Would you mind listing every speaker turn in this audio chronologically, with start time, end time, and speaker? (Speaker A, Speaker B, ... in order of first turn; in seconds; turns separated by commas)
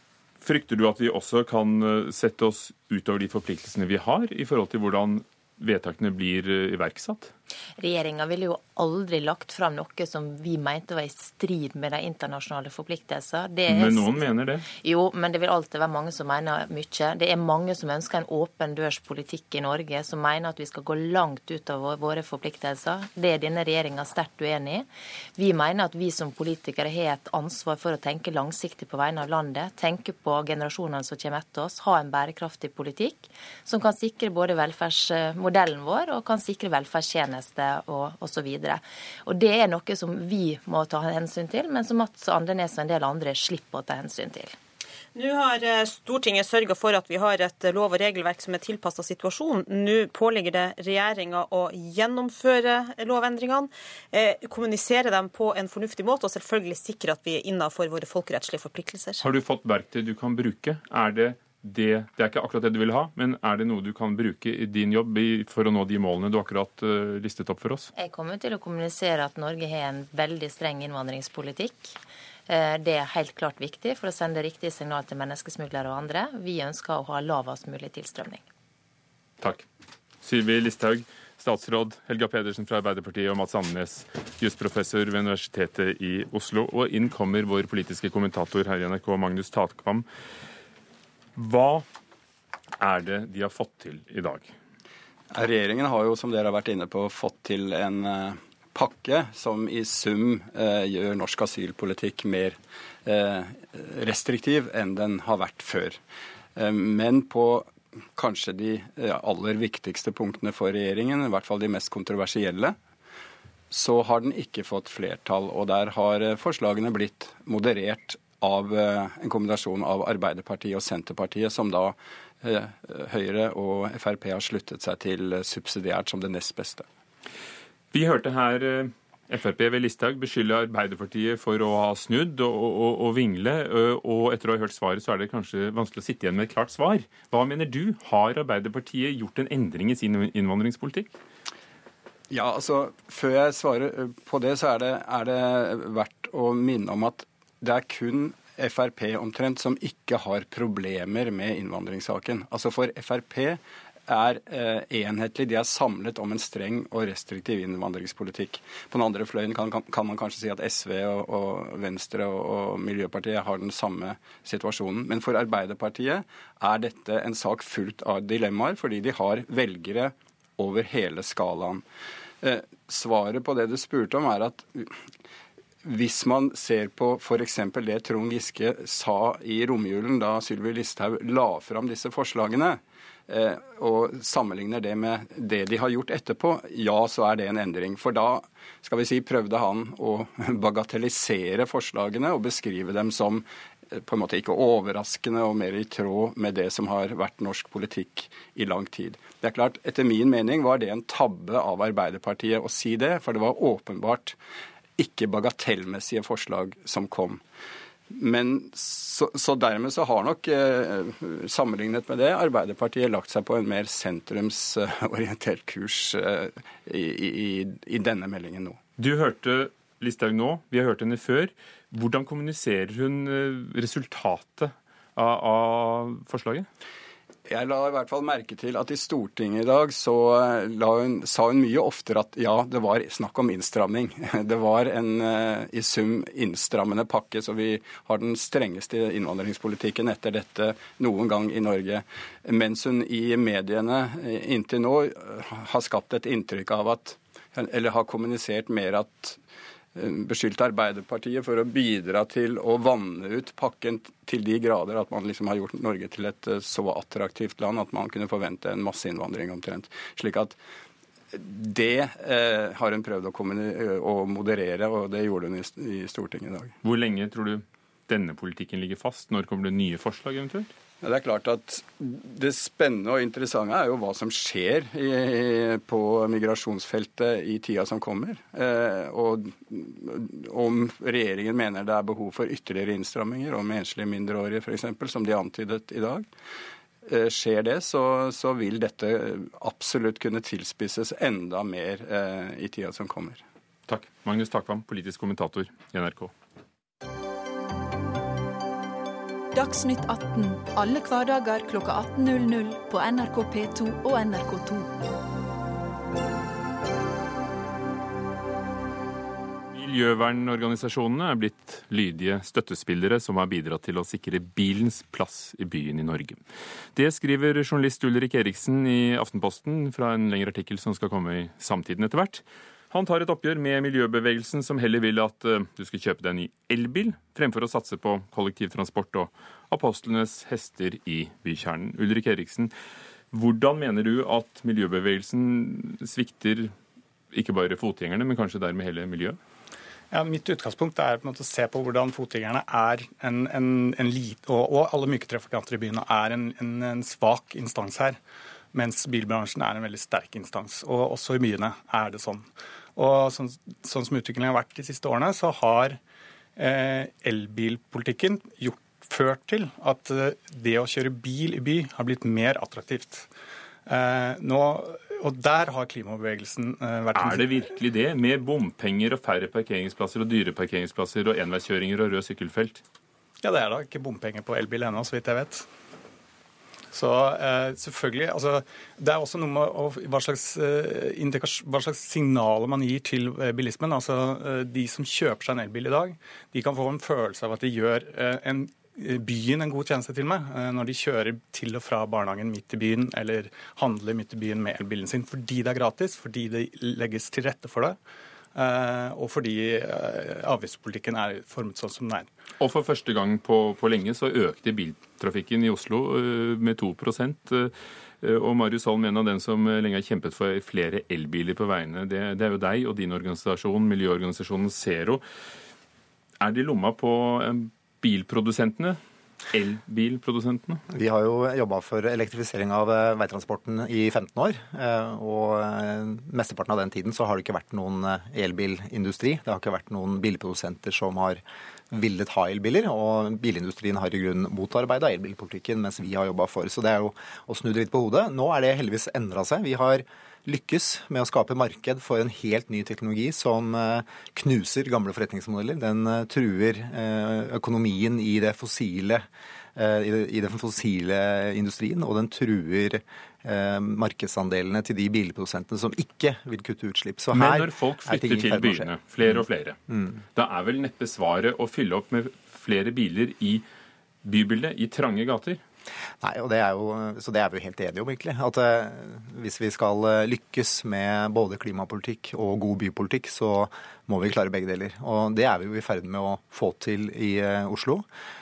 Speaker A: 0.4-7.3, Speaker B: 7.8-44.6, Speaker A: 13.7-14.7, Speaker C: 45.1-59.3, Speaker A: 59.2-67.9, Speaker B: 68.0-78.4, Speaker A: 79.4-79.7, Speaker A: 80.2-90.1, Speaker A: 91.4-91.9, Speaker A: 92.8-94.5, Speaker D: 95.3-106.0, Speaker D: 106.6-112.8, Speaker D: 113.7-126.9, Speaker A: 127.9-141.2, Speaker D: 142.3-171.8, Speaker D: 172.4-175.0, Speaker D: 175.8-204.4, Speaker D: 205.0-207.4, Speaker D: 208.1-218.8, Speaker A: 219.0-226.7, Speaker D: 227.5-249.4, Speaker D: 249.9-260.6, Speaker D: 261.3-266.7, Speaker A: 266.8-270.7, Speaker D: 271.0-286.3, Speaker D: 287.1-293.4, Speaker A: 293.9-296.3, Speaker E: 299.5-305.0, Speaker A: 309.7-316.4, Speaker A: 316.9-332.7, Speaker A: 333.3-336.7, Speaker A: 337.3-339.4, Speaker F: 340.1-348.2, Speaker F: 348.7-356.0, Speaker F: 356.6-363.3, Speaker F: 363.9-367.7, Speaker A: 367.1-372.8, Speaker F: 373.4-375.7, Speaker F: 376.9-398.0, Speaker F: 398.6-402.3, Speaker A: 402.6-415.2, Speaker A: 416.4-419.0, Speaker A: 419.5-420.8, Speaker G: 420.9-459.3, Speaker A: 457.3-459.8, Speaker G: 459.9-460.2, Speaker A: 460.4-463.6, Speaker A: 464.2-465.6, Speaker G: 466.2-478.1